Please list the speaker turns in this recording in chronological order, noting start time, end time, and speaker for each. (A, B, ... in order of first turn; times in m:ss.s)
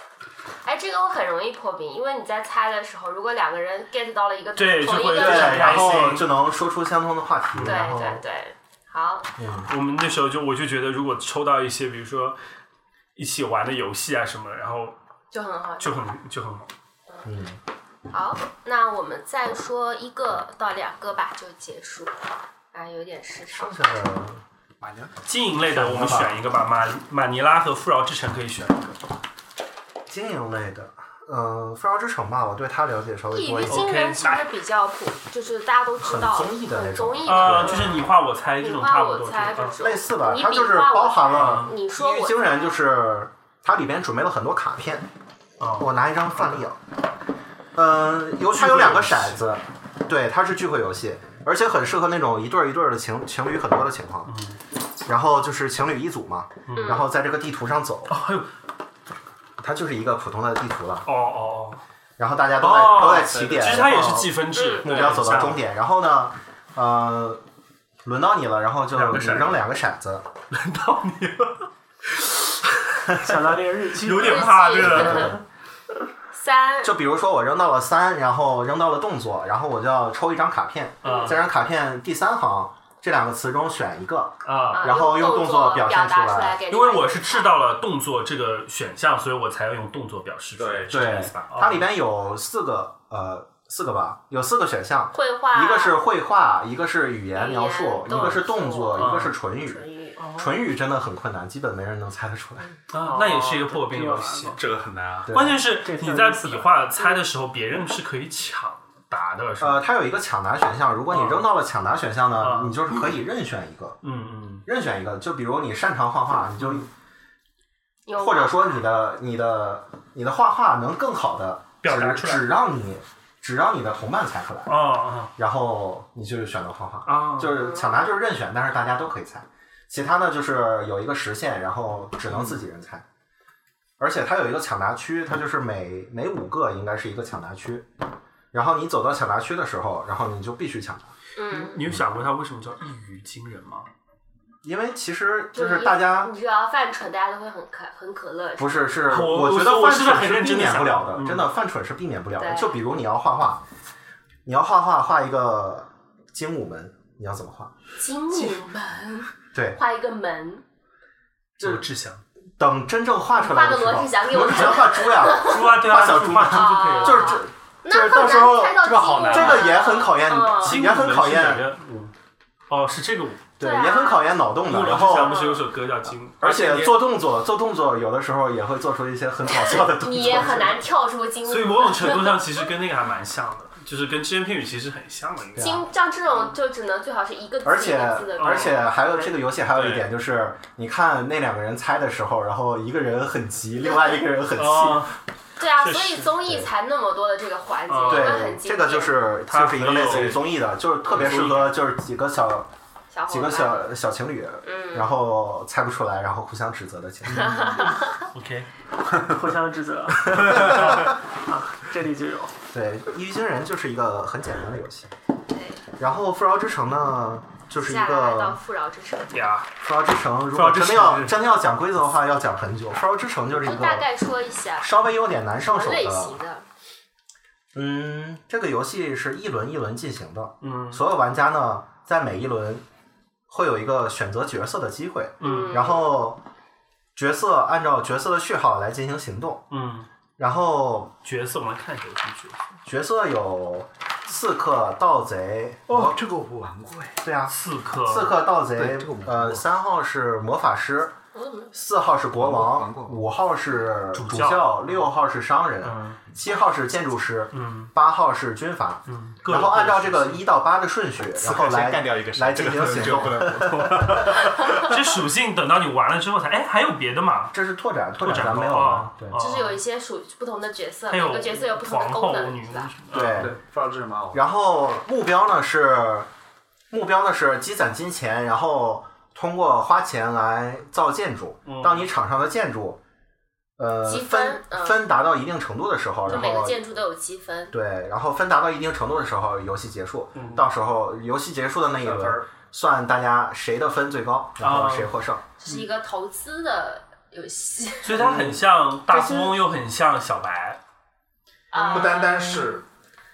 0:00.6-0:06.2 A
0:04.6-0:06.3 B
0:05.1-0:08.2 C
0:07.6-0:07.9 B
0:07.6-0:09.3 A
0:09.4-0:09.7 C
0:09.7-0:12.4 B
0:13.2-0:15.0 B
0:15.3-0:16.0 A
0:15.8-0:16.7 B
0:17.2-0:17.6 C
0:18.1-0:22.1 A
0:22.7-0:23.8 A
0:23.5-0:24.4 C
0:24.8-0:25.2 D
0:25.3-0:29.0 B
0:25.7-0:26.4 C
0:30.1-0:33.9 C
0:33.3-0:38.1 A
0:33.7-0:34.4 B
0:36.0-0:38.0 C
0:37.3-0:39.8 B
0:38.6-0:42.8 A
0:39.8-0:45.1 C
0:41.4-0:41.7 B
0:45.6-0:45.9 B
0:45.8-0:46.8 C
0:47.8-0:54.3 C
0:48.5-0:49.4 B
0:54.3-0:54.6 B
0:55.0-0:58.2 C
0:56.7-0:57.0 B
0:56.8-0:57.1 A
0:58.1-0:58.5 B
0:59.6-1:01.1 C
1:01.1-1:01.8 B
1:02.2-1:07.4 C
1:02.6-1:05.6 B
1:04.5-1:05.0 A
1:08.0-1:10.3 C
1:08.9-1:09.6 B
1:10.5-1:13.3 B
1:13.2-1:15.0 E
1:14.0-1:15.4 B
1:14.2-1:15.4 A
1:14.9-1:15.4 C
1:16.3-1:17.0 A
1:16.8-1:26.6 C
1:21.0-1:21.4 A
1:21.0-1:21.4 B
1:24.4-1:24.9 B
1:24.7-1:27.5 A
1:26.7-1:31.9 B
1:30.6-1:31.0 D
1:30.9-1:39.8 C
1:35.1-1:36.0 A
1:37.3-1:40.2 A
1:38.1-1:38.4 B
1:39.0-1:39.3 B
1:40.2-1:40.5 E
1:40.4-1:42.7 C
1:42.9-1:44.6 B
1:43.0-1:44.6 E
1:44.5-1:45.3 D
1:45.3-1:45.6 C
1:45.3-1:49.8 B
1:45.8-1:47.2 E
1:49.6-1:54.0 C
1:51.1-1:51.5 B
1:52.4-1:53.1 B
1:54.0-1:54.6 B
1:54.7-1:56.9 C
1:56.6-1:56.9 B
1:58.1-1:58.8 A
1:58.2-2:04.8 C
2:01.8-2:02.5 B
2:04.7-2:05.3 B
2:05.4-2:13.0 C
2:07.1-2:07.6 B
2:07.5-2:08.2 A
2:12.3-2:12.6 B
2:14.0-2:17.9 C
2:18.5-2:21.1 C
2:21.4-2:21.8 A
2:21.5-2:23.9 B
2:24.6-2:26.3 C
2:25.5-2:28.9 A
2:28.6-2:33.6 C
2:29.1-2:31.5 B
2:32.4-2:32.8 A
2:34.4-2:37.7 C
2:38.0-2:40.6 A
2:39.5-2:39.8 C
2:41.6-2:42.2 B
2:41.6-2:41.9 C
2:42.6-2:51.7 C
2:43.4-2:45.7 A
2:44.5-2:47.4 B
2:46.4-2:50.8 A
2:49.0-2:49.7 B
2:50.6-2:52.1 B
2:52.7-2:53.5 B
2:53.6-2:55.4 C
2:53.6-2:54.3 A
2:54.6-2:56.7 B
2:55.1-2:55.6 A
2:56.4-3:00.8 C
2:56.4-2:56.9 D
2:59.5-3:02.4 A
3:01.5-3:05.8 B
3:05.6-3:05.8 C
3:05.6-3:08.9 A
3:07.6-3:15.1 C
3:08.4-3:08.8 B
3:09.7-3:10.1 D
3:14.6-3:15.2 B
3:15.6-3:19.2 A
3:15.8-3:16.4 B
3:17.9-3:18.5 B
3:18.0-3:22.7 C
3:19.5-3:20.4 B
3:19.8-3:20.4 D
3:21.1-3:21.7 B
3:23.1-3:23.9 A
3:23.3-3:27.9 C
3:24.6-3:25.1 A
3:27.4-3:28.3 A
3:28.3-3:28.7 B
3:29.2-3:32.5 E
3:32.7-3:35.1 C
3:35.5-3:35.8 A
3:36.0-3:38.6 C
3:37.8-3:39.5 A
3:39.3-3:39.7 B
3:39.8-3:44.1 C
3:40.5-3:41.4 B
3:43.6-3:44.9 A
3:44.8-3:46.4 C
3:45.6-3:46.7 A
3:47.8-3:52.8 C
3:50.6-3:51.0 B
3:53.5-3:56.4 C
3:55.4-3:55.8 B
3:55.4-3:56.1 A
3:57.2-3:59.6 C
3:59.7-4:00.1 B
4:00.4-4:01.2 C
4:01.2-4:02.6 B
4:02.8-4:06.2 C
4:05.9-4:07.2 D
4:07.2-4:11.2 C
4:07.5-4:08.4 B
4:08.7-4:09.6 D
4:11.3-4:11.7 A
4:11.7-4:24.3 C
4:12.4-4:13.2 D
4:14.1-4:15.0 B
4:15.8-4:16.2 B
4:17.5-4:17.9 B
4:19.1-4:20.4 B
4:21.3-4:24.9 D
4:24.5-4:27.6 B
4:27.5-4:29.4 C
4:28.2-4:29.8 B
4:29.4-4:32.9 A
4:31.1-4:33.5 B
4:33.1-4:33.6 C
4:33.2-4:34.5 D
4:34.3-4:36.3 C
4:36.9-4:43.0 C
4:41.7-4:42.1 B
4:43.8-4:46.8 C
4:44.0-4:45.0 A
4:46.3-4:47.7 A
4:47.7-4:55.4 C
4:50.4-4:50.7 B
4:52.0-4:52.5 D
4:54.6-4:55.1 B
4:55.6-4:58.2 A
4:58.0-5:00.8 B
4:58.2-4:59.6 C
5:01.7-5:02.6 A
5:01.8-5:02.8 D
5:01.8-5:02.6 C